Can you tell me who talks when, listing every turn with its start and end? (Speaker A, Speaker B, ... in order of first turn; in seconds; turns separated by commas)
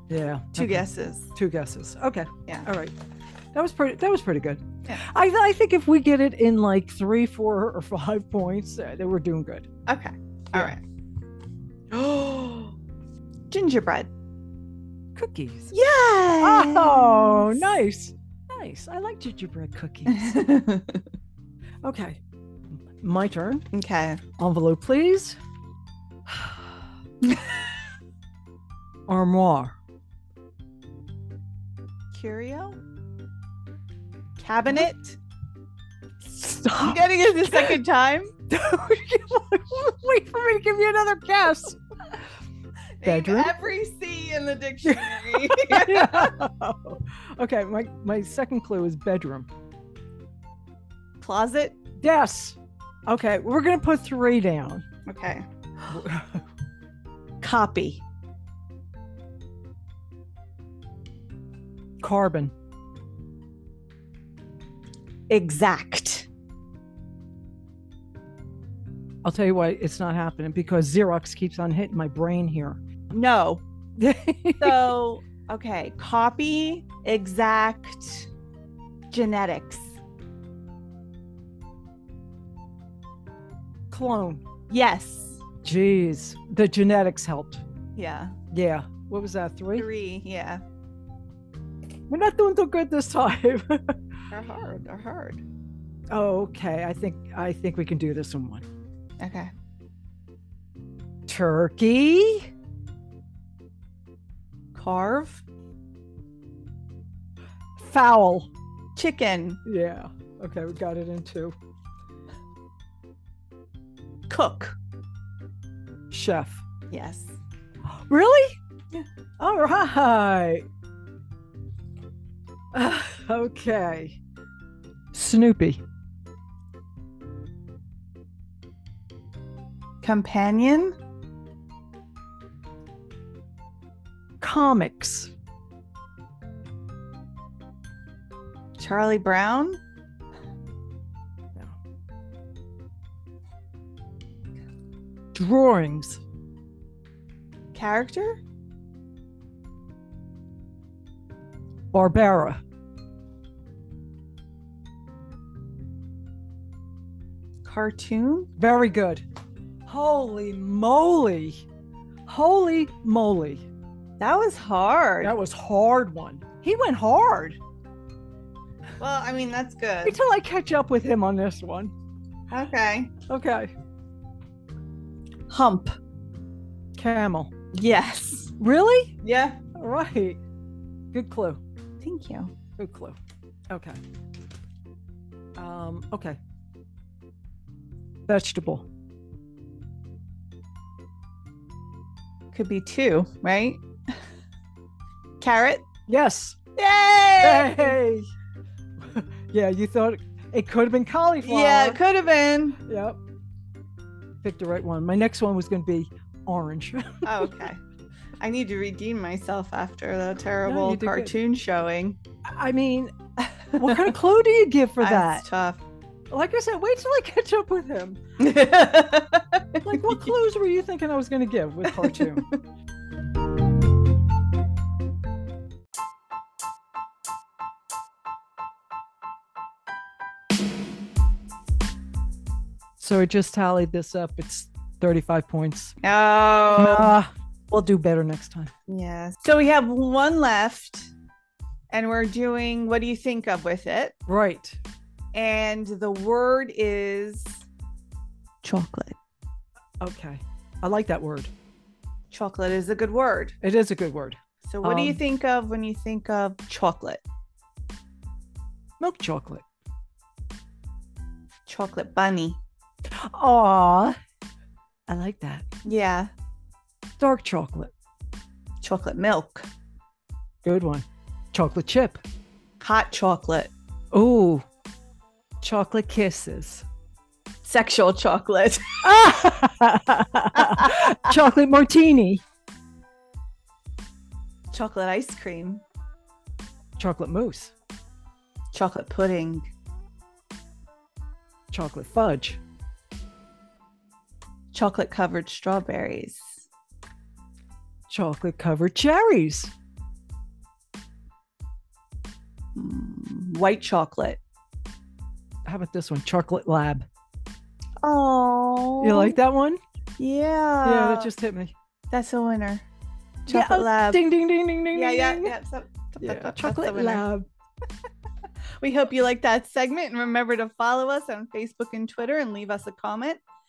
Speaker A: 0.1-3.0, Speaker B: 0.6-1.3, Speaker A: 3.5-9.7, Speaker B: 9.9-10.8, Speaker A: 11.9-12.7, Speaker B: 13.5-14.1, Speaker A: 15.2-15.7, Speaker B: 15.7-17.8, Speaker A: 16.4-20.4, Speaker B: 20.1-21.0, Speaker A: 21.8-23.7, Speaker B: 23.7-24.2, Speaker A: 24.4-25.4, Speaker A: 26.3-26.6, Speaker B: 27.2-27.6, Speaker A: 29.1-29.8, Speaker B: 32.1-32.8, Speaker B: 34.4-35.2, Speaker A: 36.2-37.8, Speaker B: 36.8-38.3, Speaker A: 38.5-41.8, Speaker B: 43.0-46.3, Speaker A: 43.0-43.5, Speaker A: 44.9-49.5, Speaker B: 51.2-51.8, Speaker A: 52.0-54.9, Speaker B: 55.1-55.5, Speaker A: 55.9-56.5, Speaker B: 57.4-58.0, Speaker A: 62.0-62.5, Speaker B: 65.3-66.3, Speaker A: 69.2-72.8, Speaker B: 73.1-73.6, Speaker A: 74.0-75.0, Speaker B: 74.6-78.3, Speaker B: 79.1-80.0, Speaker A: 83.9-84.4, Speaker B: 84.7-85.4, Speaker A: 85.6-87.6, Speaker B: 88.0-88.4, Speaker A: 88.5-89.9, Speaker B: 89.8-90.6, Speaker A: 92.1-94.0, Speaker B: 94.3-95.4, Speaker A: 96.1-98.7, Speaker B: 99.2-99.5, Speaker A: 101.3-102.5, Speaker B: 104.8-105.4, Speaker A: 107.8-108.5, Speaker B: 109.0-109.6, Speaker A: 109.7-111.5, Speaker B: 114.3-114.8, Speaker A: 116.1-116.6, Speaker B: 116.9-117.4, Speaker A: 117.9-118.6, Speaker A: 119.4-120.7, Speaker A: 122.7-124.2, Speaker A: 125.1-125.8, Speaker B: 130.0-131.0, Speaker A: 134.4-135.3, Speaker B: 138.8-139.8, Speaker A: 145.3-146.2, Speaker B: 147.7-148.4, Speaker A: 151.9-152.6, Speaker B: 157.6-158.5, Speaker A: 158.6-159.2, Speaker A: 159.9-161.6, Speaker A: 162.3-163.7, Speaker B: 164.2-165.3, Speaker A: 165.2-167.6, Speaker B: 169.0-170.2, Speaker A: 170.1-171.9, Speaker B: 172.5-173.1, Speaker A: 173.3-173.7, Speaker B: 175.5-175.9, Speaker A: 177.0-177.5, Speaker B: 177.7-178.6, Speaker A: 178.6-179.1, Speaker B: 179.2-179.6, Speaker A: 179.8-180.4, Speaker A: 181.1-181.6, Speaker B: 182.0-182.5, Speaker A: 182.8-183.2, Speaker A: 183.7-184.0, Speaker A: 185.6-186.4, Speaker A: 188.3-188.9, Speaker B: 192.5-193.8, Speaker B: 195.4-195.9, Speaker A: 196.1-196.6, Speaker B: 196.8-198.0, Speaker A: 197.4-198.3, Speaker A: 199.0-202.0, Speaker B: 201.4-202.8, Speaker A: 202.9-203.2, Speaker A: 204.4-207.5, Speaker B: 207.2-207.8, Speaker B: 208.4-212.2, Speaker A: 210.6-211.3, Speaker A: 212.5-213.1, Speaker B: 213.4-214.2, Speaker A: 213.8-215.5, Speaker B: 215.0-215.8, Speaker A: 216.3-218.2, Speaker B: 218.4-220.3, Speaker A: 219.8-222.5, Speaker B: 221.9-222.6, Speaker A: 233.0-235.9, Speaker B: 236.0-237.2, Speaker A: 236.7-238.7, Speaker B: 238.9-241.1, Speaker B: 241.9-244.2, Speaker A: 244.3-244.8, Speaker B: 245.3-247.7, Speaker B: 248.6-249.2, Speaker A: 250.0-251.5, Speaker B: 252.3-253.6, Speaker A: 253.6-255.2, Speaker B: 254.7-257.2, Speaker A: 259.0-259.6, Speaker B: 261.7-262.6, Speaker A: 263.1-264.2, Speaker A: 265.1-265.6, Speaker B: 265.9-266.3, Speaker A: 267.2-267.9, Speaker B: 268.8-269.7, Speaker A: 270.6-272.2, Speaker B: 272.8-273.7, Speaker A: 274.1-274.6, Speaker A: 275.6-276.9, Speaker B: 277.6-279.1, Speaker A: 279.0-282.4, Speaker B: 280.5-281.4, Speaker B: 284.7-285.8, Speaker A: 287.0-287.7, Speaker B: 288.7-289.7, Speaker A: 291.7-292.6, Speaker B: 294.7-296.6, Speaker A: 298.1-299.7, Speaker B: 302.8-304.4, Speaker A: 305.6-307.1, Speaker B: 308.0-309.4, Speaker A: 309.0-309.8, Speaker B: 310.2-311.3, Speaker A: 310.8-311.8, Speaker B: 312.1-312.9, Speaker B: 313.5-314.2, Speaker A: 313.5-315.5, Speaker B: 314.9-317.2, Speaker A: 316.2-317.5, Speaker B: 318.8-323.4